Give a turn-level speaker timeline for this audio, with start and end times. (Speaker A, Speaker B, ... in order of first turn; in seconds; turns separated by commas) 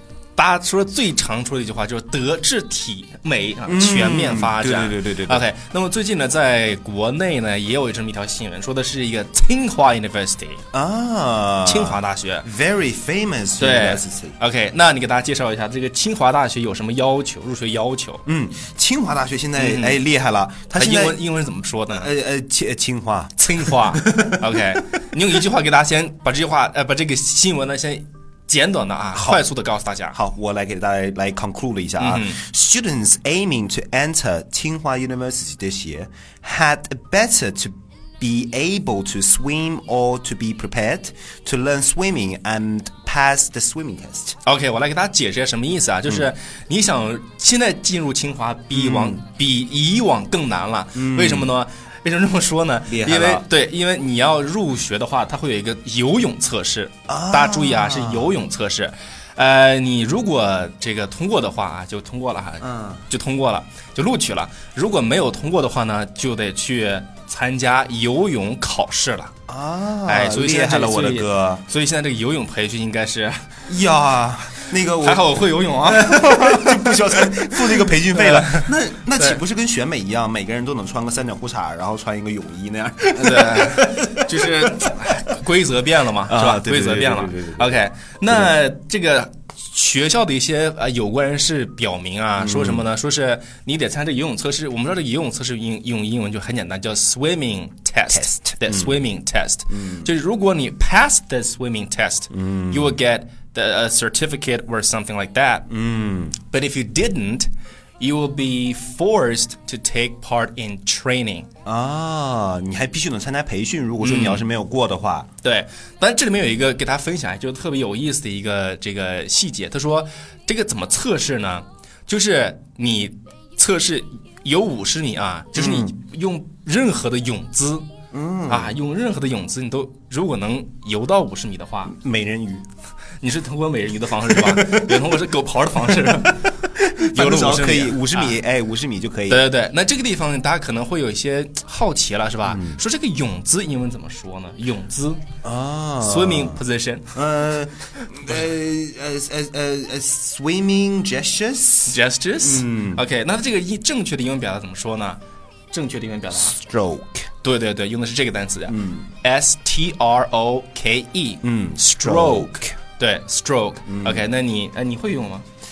Speaker A: 0.3-10.6, Speaker B: 3.6-5.5, Speaker B: 10.7-14.3, Speaker A: 11.6-12.5, Speaker A: 13.6-18.2, Speaker B: 18.2-21.2, Speaker A: 19.6-20.0, Speaker A: 20.7-22.1, Speaker B: 21.9-24.6, Speaker A: 23.4-30.2, Speaker B: 29.1-29.4, Speaker B: 30.1-44.4, Speaker A: 32.0-32.4, Speaker A: 44.4-69.3, Speaker B: 48.7-49.2, Speaker B: 50.9-51.5, Speaker B: 52.9-53.5, Speaker B: 57.1-58.4, Speaker B: 62.6-63.0, Speaker B: 69.5-71.6, Speaker A: 70.0-73.5, Speaker B: 73.7-84.9, Speaker A: 75.0-79.4, Speaker A: 83.1-105.7, Speaker B: 86.3-88.6, Speaker B: 92.4-92.9, Speaker B: 98.1-99.0, Speaker B: 99.7-100.1, Speaker B: 102.3-103.0, Speaker B: 105.7-106.4, Speaker A: 106.5-111.5, Speaker B: 111.6-115.3, Speaker A: 114.0-114.5, Speaker A: 115.4-127.9, Speaker B: 125.5-125.9, Speaker B: 128.1-128.8, Speaker A: 128.5-132.0, Speaker B: 131.8-132.7, Speaker A: 133.2-138.4, Speaker B: 134.2-135.2, Speaker B: 135.9-139.4, Speaker A: 139.3-145.2, Speaker B: 142.4-142.8, Speaker B: 145.4-146.6, Speaker A: 146.0-147.2, Speaker B: 147.1-153.0, Speaker A: 151.9-155.2, Speaker A: 155.7-156.6, Speaker B: 156.3-157.3, Speaker A: 157.4-165.4, Speaker B: 158.7-159.1, Speaker B: 161.4-162.7, Speaker B: 163.8-164.2